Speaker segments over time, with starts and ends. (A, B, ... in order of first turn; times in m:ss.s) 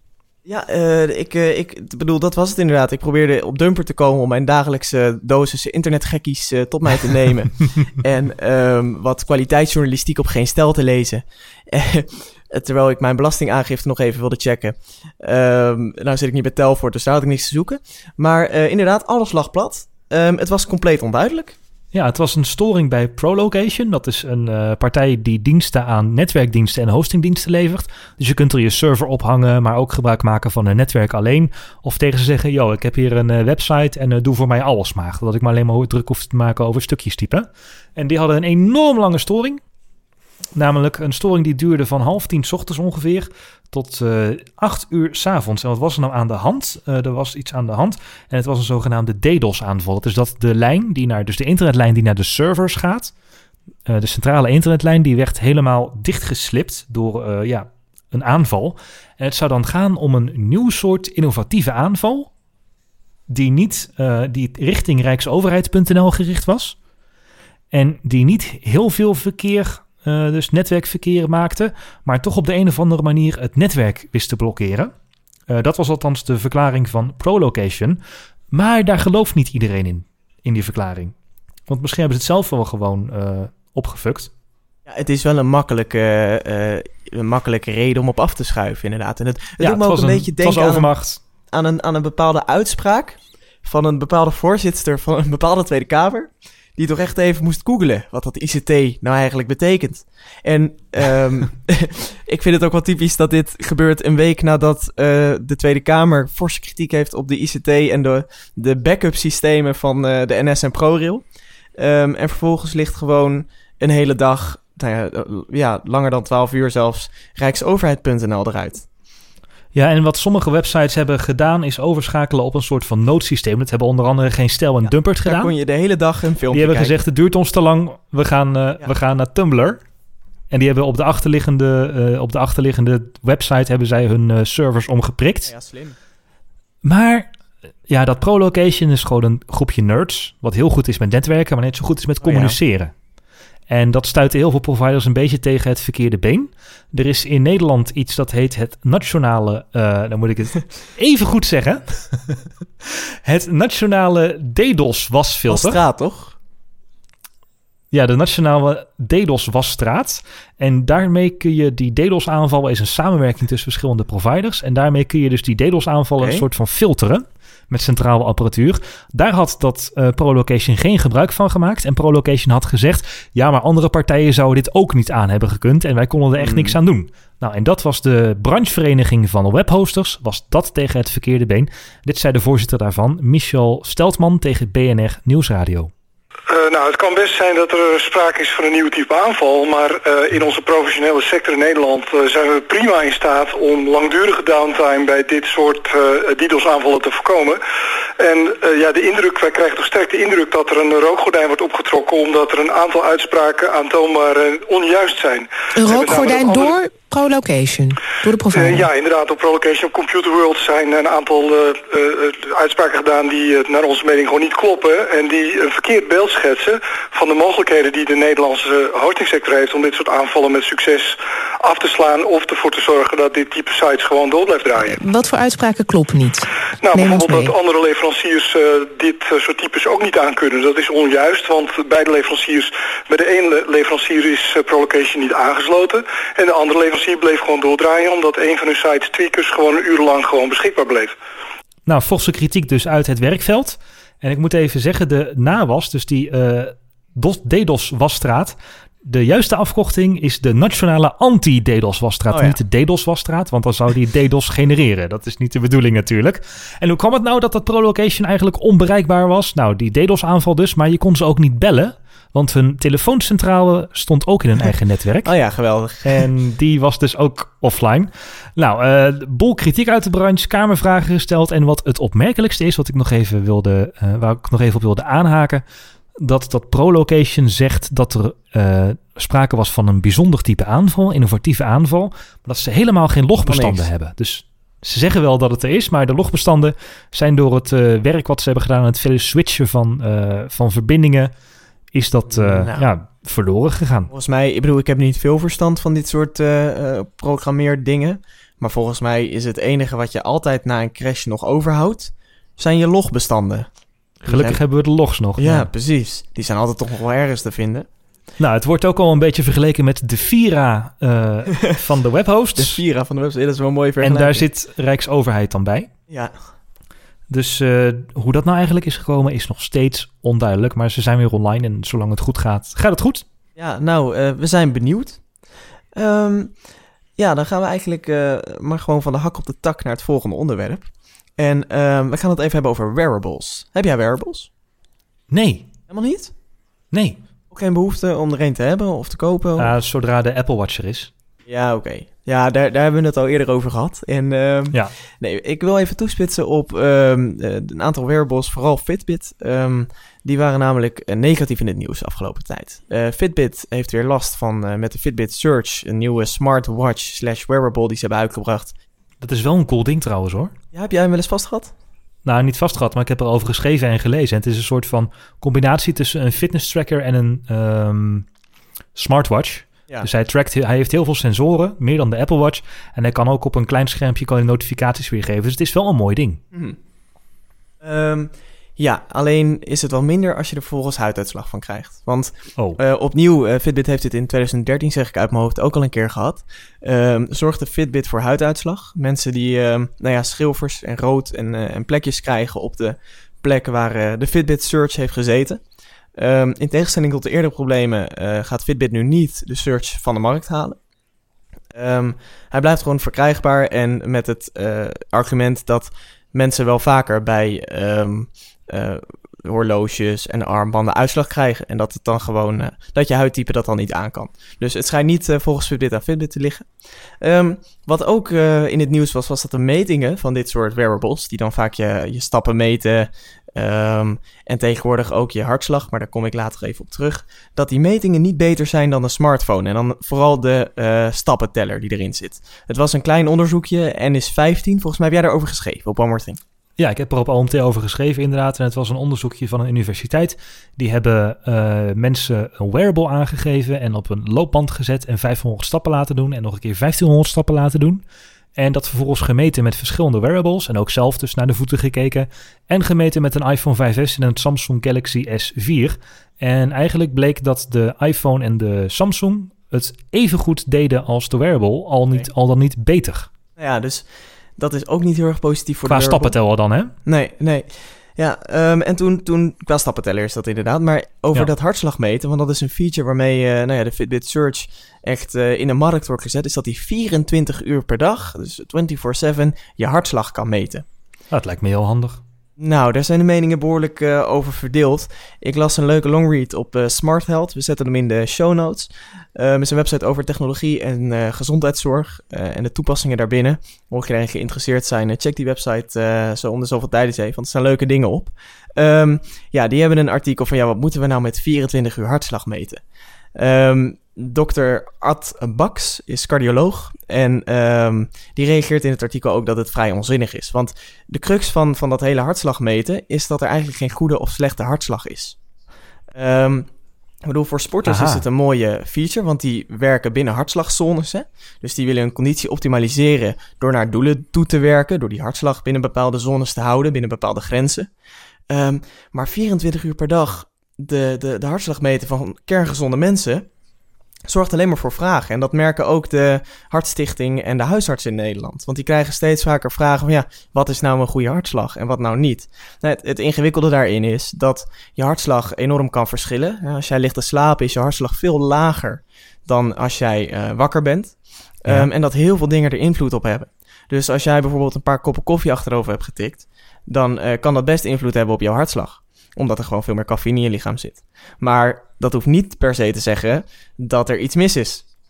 0:00.4-0:21.6 A
0:21.9-0:39.6 B
0:40.6-0:53.1 B
0:53.9-1:02.3 B
1:03.3-1:06.8 B
1:07.7-1:14.9 B
1:15.5-1:18.0 B
1:18.5-1:21.1 B
1:21.7-1:24.3 B
1:24.9-1:30.9 A
1:29.6-1:31.2 B
1:31.5-1:51.2 A
1:51.8-1:58.9 A
1:59.7-2:05.5 B
2:04.9-2:07.0 A
2:06.5-2:09.8 B
2:10.5-2:15.5 B
2:15.5-2:16.0 A
2:16.8-2:17.3 B
2:17.9-2:22.9 B
2:22.2-2:22.6 A
2:23.7-2:32.4 B
2:33.2-2:35.8 B
2:35.5-2:36.4 A
2:37.9-3:05.9 B
2:46.2-2:46.4 A
2:56.4-2:56.8 A
3:06.5-3:17.6 C
3:18.2-3:26.8 C
3:25.8-3:28.9 D
3:28.5-3:45.0 C
3:44.9-3:47.5 D
3:46.8-4:01.1 C
4:01.9-4:25.3 B
4:12.3-4:12.6 A
4:25.2-4:26.3 A
4:26.0-4:35.6 B
4:36.2-4:51.3 B
4:43.4-4:43.9 A
4:51.9-4:54.1 B
4:52.3-4:52.9 A
4:54.1-5:03.7 A
5:04.2-5:04.6 A
5:04.2-5:05.7 B
5:05.4-5:07.9 A
5:08.4-5:12.8 B
5:12.6-5:14.4 A
5:14.0-5:15.9 B
5:17.3-5:23.2 B
5:23.6-5:25.2 A
5:26.0-5:26.6 A
5:27.2-5:34.5 A
5:35.3-5:35.7 B
5:35.9-5:36.3 A
5:36.9-5:37.2 B
5:37.5-5:39.7 A
5:39.6-5:41.1 B
5:41.5-5:58.7 A
5:59.2-6:00.5 B
6:00.7-6:01.7 A
6:02.2-6:08.3 B
6:09.0-6:16.4 B
6:17.8-6:35.6 A
6:36.2-6:40.8 A
6:41.7-7:16.4 A
7:16.8-7:28.0 B
7:28.6-7:43.3 B
7:43.6-7:46.4 A
7:45.9-7:47.0 B
7:47.1-8:00.8 A
8:01.3-8:02.2 B
8:02.6-8:22.8 A
8:23.4-8:35.4 A
8:36.2-8:36.7 A
8:37.2-8:47.9 A
8:37.9-8:38.2 B
8:48.5-8:53.5 A
8:54.3-9:24.8 A